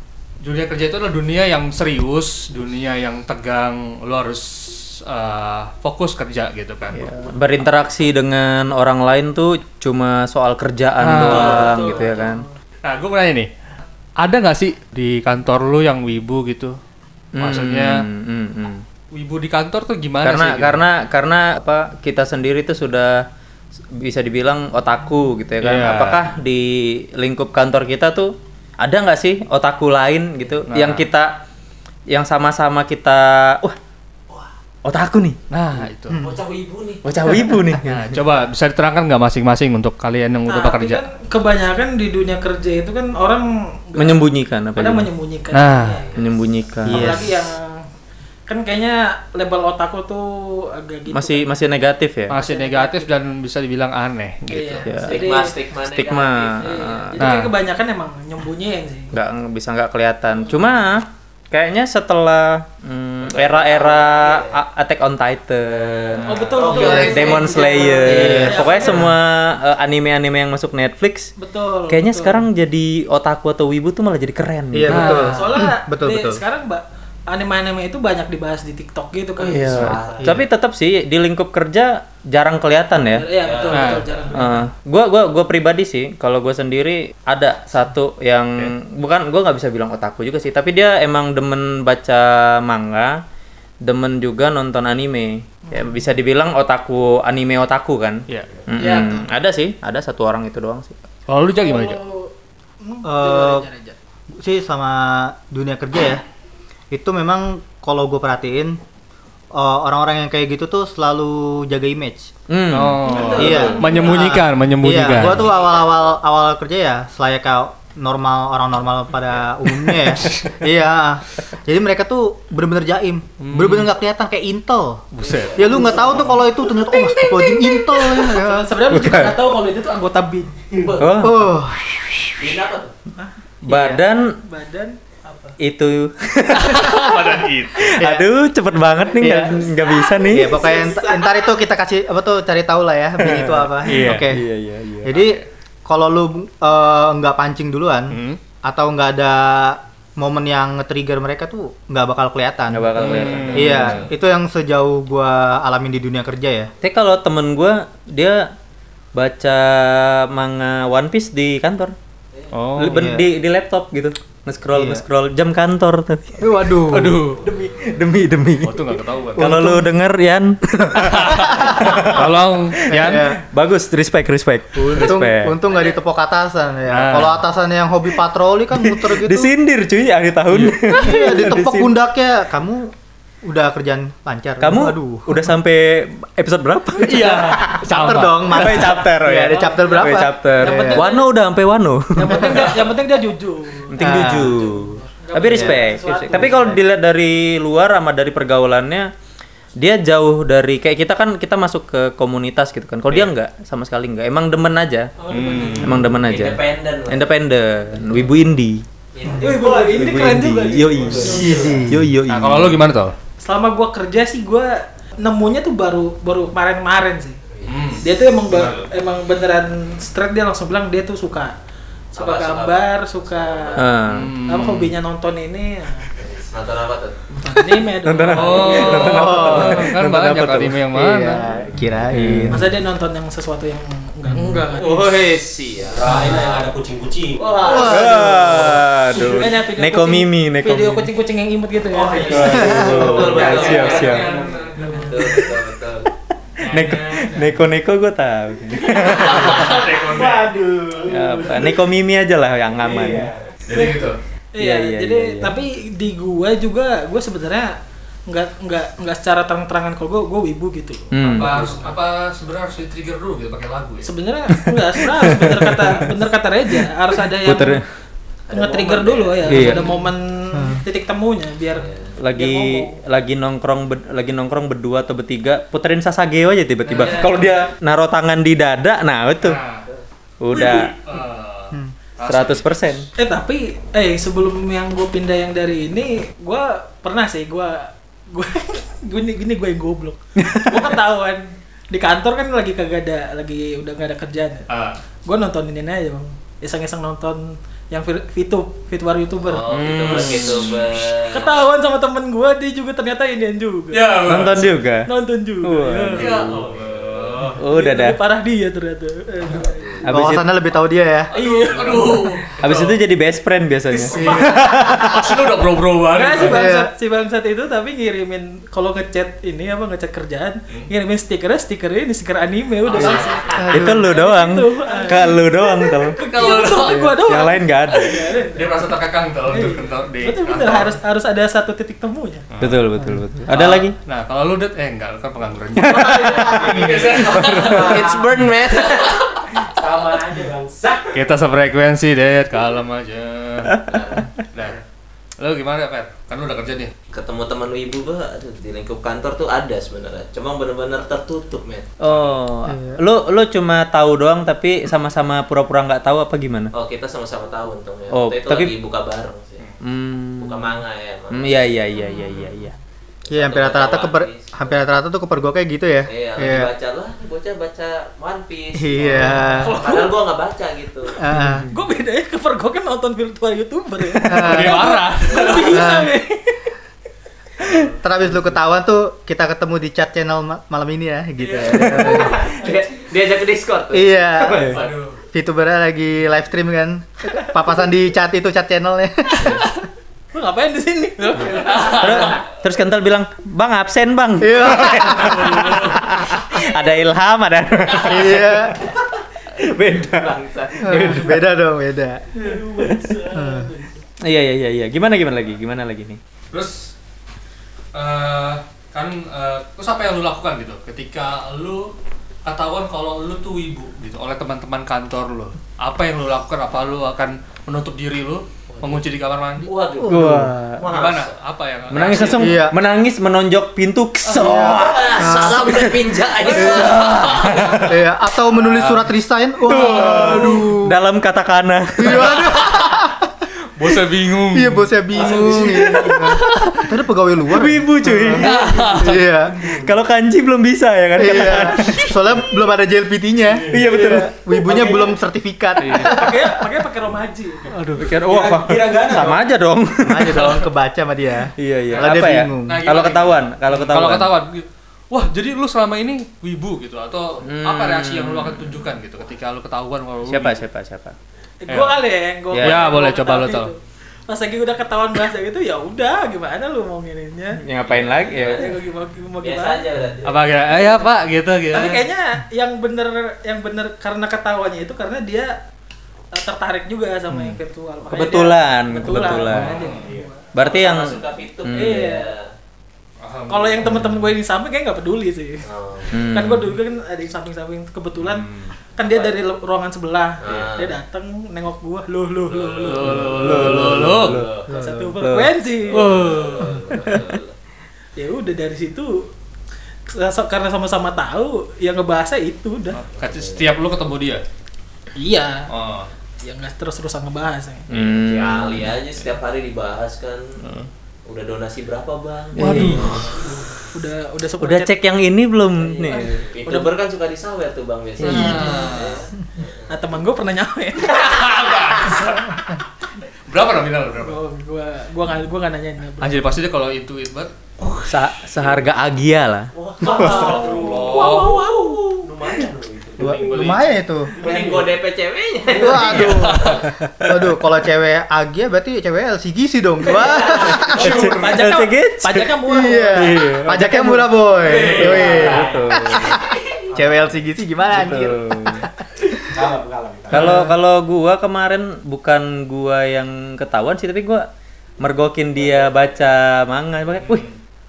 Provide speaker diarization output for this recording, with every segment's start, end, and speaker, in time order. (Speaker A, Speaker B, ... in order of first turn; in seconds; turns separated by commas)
Speaker A: 0.4-7.1, Speaker B: 6.9-12.4, Speaker A: 11.0-11.8, Speaker C: 11.3-12.3, Speaker A: 12.8-13.5, Speaker A: 14.2-16.8, Speaker B: 17.4-18.8, Speaker A: 17.4-18.1, Speaker A: 19.1-20.8, Speaker B: 20.2-23.3, Speaker B: 23.9-31.4, Speaker A: 25.6-26.2, Speaker A: 30.7-31.1, Speaker B: 32.1-33.8, Speaker B: 34.9-35.4, Speaker A: 35.5-36.2, Speaker D: 36.1-36.4, Speaker C: 36.1-37.0, Speaker B: 37.0-38.2, Speaker A: 37.8-41.0, Speaker E: 40.5-46.1, Speaker B: 44.0-45.1, Speaker A: 45.5-46.0, Speaker B: 46.1-47.2, Speaker E: 46.9-47.8, Speaker D: 46.9-47.4, Speaker E: 48.5-51.6, Speaker B: 51.1-52.4, Speaker A: 52.3-54.9, Speaker E: 52.4-53.1, Speaker E: 54.5-55.6, Speaker B: 54.8-55.3, Speaker C: 55.0-56.7, Speaker B: 55.9-57.2, Speaker E: 56.6-59.1, Speaker A: 57.2-57.5, Speaker B: 59.1-71.3, Speaker C: 63.2-64.6, Speaker C: 65.7-68.8, Speaker A: 66.2-66.6, Speaker E: 66.2-69.1, Speaker D: 66.9-67.1, Speaker D: 68.1-69.1, Speaker E: 71.4-72.4, Speaker B: 71.9-75.3, Speaker D: 74.7-76.4, Speaker A: 74.9-75.5, Speaker E: 75.3-80.0, Speaker B: 79.4-83.3, Speaker C: 79.6-80.3, Speaker E: 83.1-84.7, Speaker C: 83.4-84.3, Speaker A: 83.7-84.1, Speaker B: 84.3-93.2, Speaker B: 93.8-101.0, Speaker E: 98.8-99.3, Speaker A: 101.3-102.0, Speaker E: 101.6-104.0, Speaker D: 103.0-103.7, Speaker D: 104.4-106.2, Speaker D: 106.9-108.8, Speaker D: 109.5-112.3, Speaker B: 112.5-113.7, Speaker A: 112.7-115.5, Speaker C: 113.0-114.2, Speaker D: 113.3-125.0, Speaker A: 119.9-120.5, Speaker A: 123.4-123.9, Speaker A: 125.1-125.6, Speaker C: 125.2-126.3, Speaker D: 125.5-129.3, Speaker E: 128.1-130.5, Speaker B: 128.9-129.3, Speaker C: 130.9-131.3, Speaker B: 131.0-131.6, Speaker D: 131.2-132.3, Speaker C: 132.4-132.9, Speaker B: 133.6-134.4, Speaker D: 133.7-134.0, Speaker E: 134.4-135.6, Speaker B: 135.6-140.7, Speaker A: 136.5-138.0, Speaker D: 138.0-138.3, Speaker D: 139.2-144.5, Speaker E: 140.7-141.0, Speaker C: 140.7-141.2, Speaker B: 143.2-145.2, Speaker A: 143.8-144.4, Speaker A: 145.1-145.5, Speaker D: 145.1-156.7, Speaker A: 148.1-148.4, Speaker B: 152.7-154.1, Speaker A: 153.0-154.1, Speaker C: 153.0-154.1, Speaker B: 156.8-158.5, Speaker B: 159.2-161.9, Speaker A: 162.5-163.1, Speaker B: 162.8-166.6, Speaker D: 162.8-163.3, Speaker D: 164.7-165.0, Speaker D: 166.4-167.4, Speaker A: 166.9-167.4, Speaker F: 167.4-167.9, Speaker B: 167.8-175.6, Speaker A: 168.6-169.5, Speaker D: 169.4-169.9, Speaker A: 171.1-173.3, Speaker D: 171.1-172.1, Speaker D: 172.9-173.4, Speaker D: 174.8-179.5, Speaker A: 176.9-177.4, Speaker B: 178.9-182.0, Speaker A: 180.5-181.4, Speaker D: 180.9-182.9, Speaker D: 183.4-185.5, Speaker B: 184.6-192.9, Speaker A: 187.0-189.1, Speaker D: 187.0-191.1, Speaker E: 189.8-191.3, Speaker E: 192.2-196.8, Speaker D: 192.4-192.6, Speaker B: 193.9-199.1, Speaker D: 194.0-194.7, Speaker D: 195.4-195.8, Speaker B: 199.8-205.1, Speaker E: 205.2-206.1, Speaker A: 205.3-206.0, Speaker B: 205.8-208.8, Speaker C: 206.2-207.3, Speaker C: 209.2-209.6, Speaker E: 209.4-211.8, Speaker F: 209.5-211.9, Speaker B: 209.9-212.8, Speaker D: 211.4-212.0, Speaker A: 212.3-213.2, Speaker E: 213.4-217.4, Speaker C: 217.6-218.0, Speaker A: 217.7-218.9, Speaker E: 218.0-221.5, Speaker E: 222.1-223.8, Speaker C: 222.2-224.0, Speaker B: 223.8-224.3, Speaker A: 224.1-224.9, Speaker E: 224.5-226.1, Speaker C: 226.2-227.2, Speaker E: 227.4-229.4, Speaker B: 227.7-230.8, Speaker A: 228.3-231.5, Speaker D: 229.0-229.9, Speaker D: 230.9-232.6, Speaker B: 232.1-232.7, Speaker E: 232.5-235.0, Speaker D: 234.3-234.7, Speaker C: 234.7-236.7, Speaker F: 235.9-238.5, Speaker C: 237.4-238.3, Speaker D: 237.7-238.6, Speaker E: 237.7-238.4, Speaker B: 237.7-241.1, Speaker E: 239.1-245.1, Speaker F: 241.9-245.0, Speaker B: 242.3-244.3, Speaker D: 242.6-243.1, Speaker C: 242.9-244.3, Speaker A: 243.6-245.1, Speaker C: 245.1-246.1, Speaker A: 246.6-247.6, Speaker B: 246.6-249.9, Speaker A: 248.9-250.5, Speaker F: 249.5-251.8, Speaker B: 251.1-253.3, Speaker F: 252.8-253.4, Speaker A: 253.7-254.2, Speaker E: 254.6-257.8, Speaker B: 254.6-255.6, Speaker E: 258.3-261.1, Speaker B: 261.1-261.7, Speaker A: 261.4-264.1, Speaker C: 261.4-261.9, Speaker E: 264.0-267.8, Speaker B: 265.2-266.0, Speaker B: 267.4-267.9, Speaker C: 268.5-269.9, Speaker E: 268.5-273.0, Speaker B: 269.4-269.9, Speaker D: 270.5-270.8, Speaker C: 271.8-272.1, Speaker B: 272.2-279.6, Speaker C: 276.9-277.4, Speaker A: 279.4-279.9, Speaker B: 280.4-280.9, Speaker A: 280.5-283.0, Speaker B: 282.2-283.1, Speaker E: 283.2-294.7, Speaker B: 290.4-290.9, Speaker A: 294.7-295.0, Speaker E: 295.3-299.7, Speaker C: 299.5-301.6, Speaker B: 299.7-300.8, Speaker E: 301.3-304.2, Speaker A: 303.9-304.8, Speaker B: 304.2-305.1, Speaker E: 305.1-306.5, Speaker B: 305.6-306.6, Speaker A: 306.2-307.6, Speaker C: 306.5-306.9, Speaker B: 307.6-308.2, Speaker E: 307.7-309.9, Speaker B: 310.0-310.5, Speaker D: 310.1-311.3, Speaker E: 311.3-312.3, Speaker A: 311.3-313.0, Speaker B: 312.6-315.1, Speaker A: 313.9-316.7, Speaker D: 314.1-315.4, Speaker E: 316.1-328.9, Speaker D: 316.4-316.9, Speaker A: 322.9-323.7, Speaker D: 323.5-324.1, Speaker B: 323.6-326.2, Speaker A: 326.2-327.2, Speaker B: 326.9-328.2, Speaker A: 328.1-331.0, Speaker E: 329.5-332.4, Speaker A: 332.5-332.8, Speaker B: 332.6-333.9, Speaker A: 333.5-338.1, Speaker B: 335.8-337.8, Speaker F: 336.0-338.4, Speaker C: 336.1-339.4, Speaker F: 339.7-341.2, Speaker A: 341.1-343.8, Speaker C: 343.8-344.3, Speaker A: 344.5-344.8, Speaker A: 345.4-346.9, Speaker C: 347.1-351.9, Speaker B: 352.0-356.7, Speaker A: 352.1-352.4, Speaker D: 352.7-353.0, Speaker C: 356.7-359.6, Speaker B: 358.1-358.7, Speaker B: 359.8-360.8, Speaker C: 360.4-361.7, Speaker B: 361.3-362.8, Speaker C: 363.2-364.8, Speaker D: 363.3-366.7, Speaker C: 366.1-371.2, Speaker D: 368.8-369.9, Speaker A: 369.3-369.6, Speaker D: 371.2-371.7, Speaker B: 371.3-371.7, Speaker E: 371.7-376.6, Speaker D: 374.2-374.9, Speaker A: 374.4-375.8, Speaker C: 375.3-375.8, Speaker D: 375.7-376.1, Speaker D: 377.6-382.6, Speaker A: 381.4-382.3, Speaker C: 381.6-385.0, Speaker D: 383.9-389.8, Speaker A: 384.7-385.1, Speaker E: 390.3-392.2, Speaker C: 391.7-392.3, Speaker A: 391.8-392.1, Speaker B: 391.8-399.0, Speaker D: 394.4-395.9, Speaker A: 394.9-396.0, Speaker D: 398.0-398.8, Speaker B: 399.6-401.5, Speaker C: 400.1-401.1, Speaker D: 400.8-402.5, Speaker F: 402.4-404.0, Speaker D: 403.3-403.7, Speaker B: 404.2-406.2, Speaker A: 406.5-406.9, Speaker A: 407.9-411.9, Speaker A: 412.4-419.7, Speaker C: 418.7-419.0, Speaker C: 419.6-421.3, Speaker D: 420.0-420.6, Speaker B: 420.0-420.9, Speaker A: 420.9-422.6, Speaker B: 421.9-425.7, Speaker D: 422.2-422.8, Speaker D: 424.3-427.0, Speaker C: 424.5-427.7, Speaker A: 426.4-429.1, Speaker B: 426.6-427.8, Speaker D: 427.7-430.9, Speaker B: 429.6-432.6, Speaker A: 429.7-430.6, Speaker D: 432.0-433.3, Speaker A: 432.2-433.0, Speaker A: 433.8-434.9, Speaker D: 434.5-438.5, Speaker F: 435.1-436.2, Speaker B: 435.7-436.6, Speaker A: 436.2-436.9, Speaker B: 437.5-442.1, Speaker A: 438.2-439.2, Speaker D: 439.0-439.6, Speaker F: 439.6-439.9, Speaker D: 441.2-446.7, Speaker F: 443.5-445.2, Speaker B: 443.7-444.8, Speaker A: 445.8-446.1, Speaker E: 446.0-447.7, Speaker B: 447.9-450.6, Speaker F: 448.1-449.4, Speaker D: 450.0-452.9, Speaker A: 450.4-450.6, Speaker B: 451.6-454.3, Speaker A: 451.9-460.6, Speaker B: 457.4-458.9, Speaker B: 460.3-461.2, Speaker E: 461.6-467.6, Speaker A: 461.7-462.0, Speaker B: 462.5-462.9, Speaker A: 462.6-463.7, Speaker B: 467.6-468.7, Speaker A: 467.9-468.2, Speaker E: 468.5-469.9, Speaker C: 469.4-470.9, Speaker A: 470.2-472.1, Speaker E: 471.7-475.6, Speaker E: 476.3-480.4, Speaker B: 478.1-479.8, Speaker A: 479.5-480.1, Speaker F: 480.0-480.3, Speaker B: 480.6-482.1, Speaker C: 480.6-482.5, Speaker E: 481.7-482.3, Speaker A: 483.2-484.2, Speaker E: 483.5-485.7, Speaker C: 485.6-486.2, Speaker B: 486.1-486.7, Speaker E: 486.3-493.3, Speaker A: 488.2-488.7, Speaker C: 489.1-489.3, Speaker C: 490.4-491.0, Speaker C: 492.5-494.7, Speaker A: 492.9-494.4, Speaker B: 493.1-494.6, Speaker E: 494.7-496.1, Speaker D: 494.7-495.2, Speaker B: 495.2-495.5, Speaker C: 495.9-497.6, Speaker A: 495.9-496.8, Speaker B: 497.0-497.3, Speaker E: 498.2-499.3, Speaker E: 500.1-503.0, Speaker A: 503.0-504.4, Speaker C: 503.2-503.7, Speaker E: 505.2-505.7, Speaker A: 505.7-506.1, Speaker E: 506.4-507.9, Speaker B: 507.9-508.9, Speaker C: 507.9-510.6, Speaker C: 511.3-513.4, Speaker B: 512.6-513.3, Speaker D: 512.6-513.0, Speaker A: 512.7-513.2, Speaker E: 513.9-514.9, Speaker B: 514.6-516.3, Speaker C: 516.0-519.9, Speaker E: 516.7-517.0, Speaker B: 518.2-518.7, Speaker A: 518.2-519.2, Speaker E: 519.9-521.5, Speaker A: 521.0-522.6, Speaker A: 523.5-524.4, Speaker E: 524.2-526.5, Speaker A: 526.2-527.5, Speaker B: 528.0-530.5, Speaker F: 529.8-535.0, Speaker E: 530.1-531.4, Speaker C: 530.2-532.3, Speaker A: 530.6-531.7, Speaker D: 533.2-534.4, Speaker A: 533.2-534.0, Speaker C: 534.4-536.8, Speaker D: 535.7-541.3, Speaker A: 536.0-536.8, Speaker B: 537.2-537.6, Speaker C: 540.2-540.7, Speaker B: 540.5-542.5, Speaker E: 540.8-544.3, Speaker D: 542.7-549.5, Speaker B: 543.1-544.1, Speaker F: 544.6-545.8, Speaker B: 544.8-546.4, Speaker A: 544.9-545.5, Speaker F: 547.0-547.3, Speaker B: 547.9-548.9, Speaker F: 549.5-550.5, Speaker D: 550.3-550.8, Speaker B: 550.3-554.5, Speaker B: 555.0-557.5, Speaker F: 555.6-555.9, Speaker A: 557.2-557.5